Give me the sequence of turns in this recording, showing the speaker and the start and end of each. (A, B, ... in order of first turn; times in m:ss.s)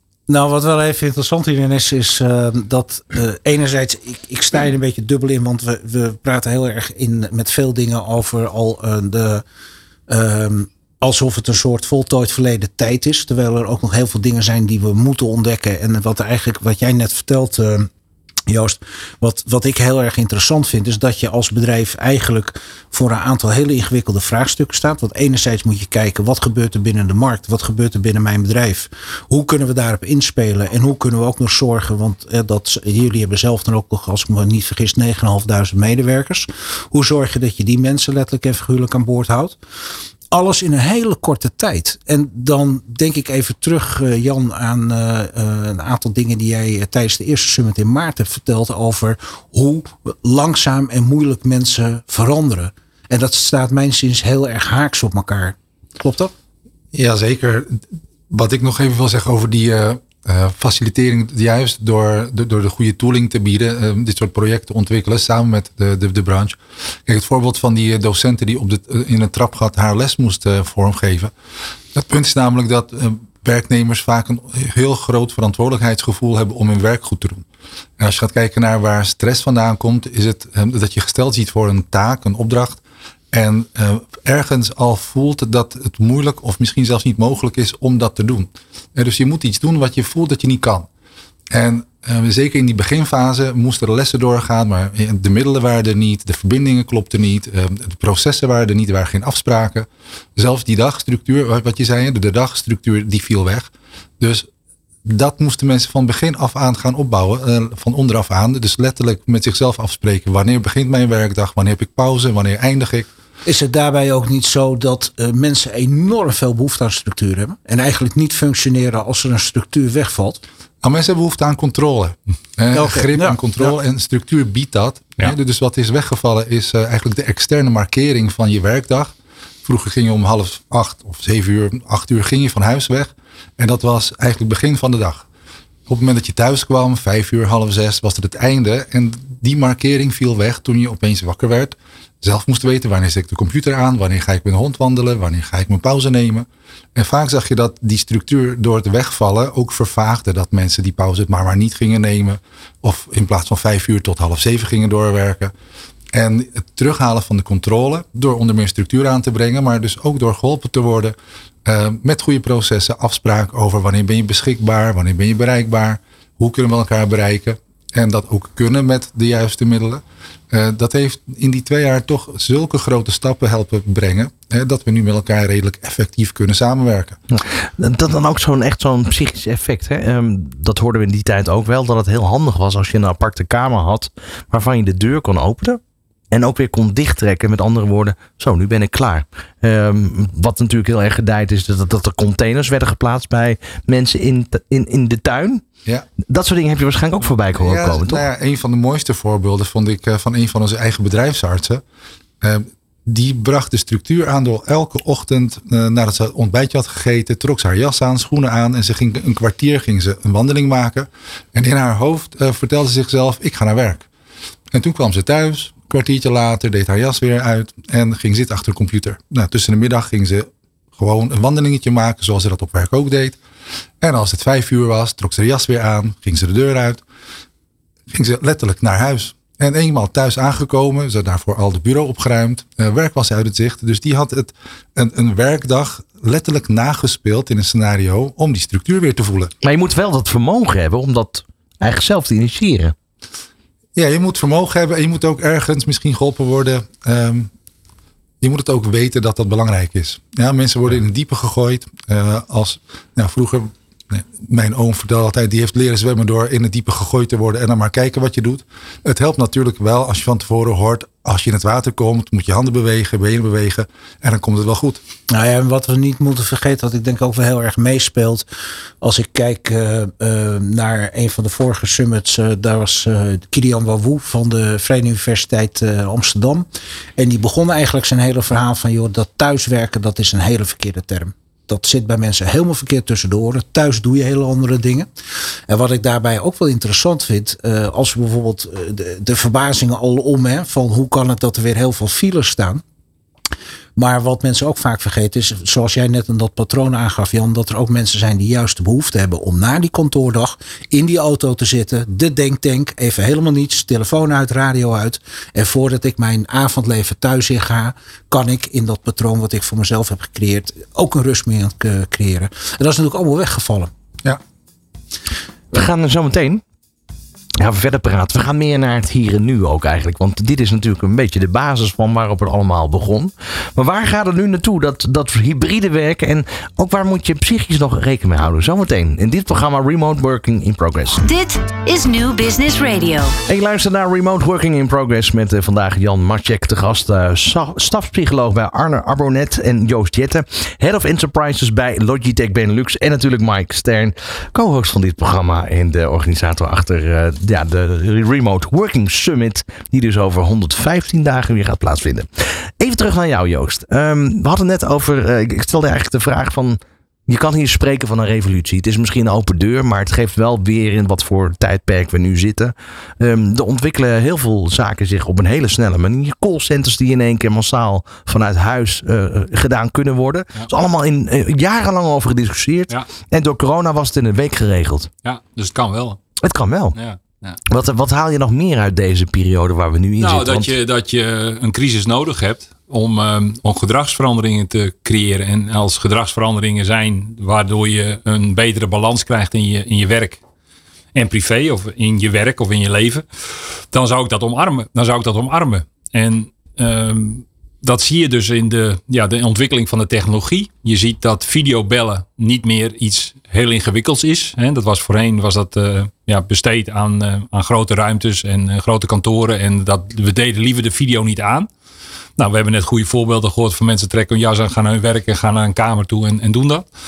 0:00.3-0:09.4 A
0:10.1-0:17.9 A
0:18.5-0:39.6 A
0:40.3-0:56.3 A
0:56.9-1:11.3 B
1:12.0-1:17.5 B
1:18.0-1:22.8 B
1:23.3-1:30.9 B
1:31.5-1:44.5 B
1:45.0-1:53.1 B
1:53.5-2:00.4 A
2:00.8-2:15.3 B
2:02.7-2:03.7 A
2:15.9-2:35.5 B
2:36.1-2:57.2 B
2:57.3-3:05.8 C
3:06.3-3:15.6 C
3:16.2-3:18.2 C
3:17.6-3:21.8 B
3:22.4-3:34.1 B
3:34.7-3:43.4 B
3:44.0-3:47.0 B
3:48.1-3:59.5 B
3:59.6-4:03.0 C
4:04.0-4:07.5 B
4:08.4-4:25.0 B
4:25.3-4:28.5 A
4:29.0-4:36.7 A
4:37.2-4:45.1 A
4:45.7-4:52.8 A
4:54.0-5:13.9 A
5:15.7-5:16.6 C
5:17.6-5:31.2 C
5:31.2-5:33.3 D
5:33.5-6:15.1 C
6:15.2-6:16.2 E
6:16.4-6:17.0 C
6:17.0-6:17.6 E
6:17.7-6:20.7 C
6:20.2-6:30.4 E
6:31.1-6:33.3 E
6:33.9-6:51.7 E
6:52.4-6:56.9 E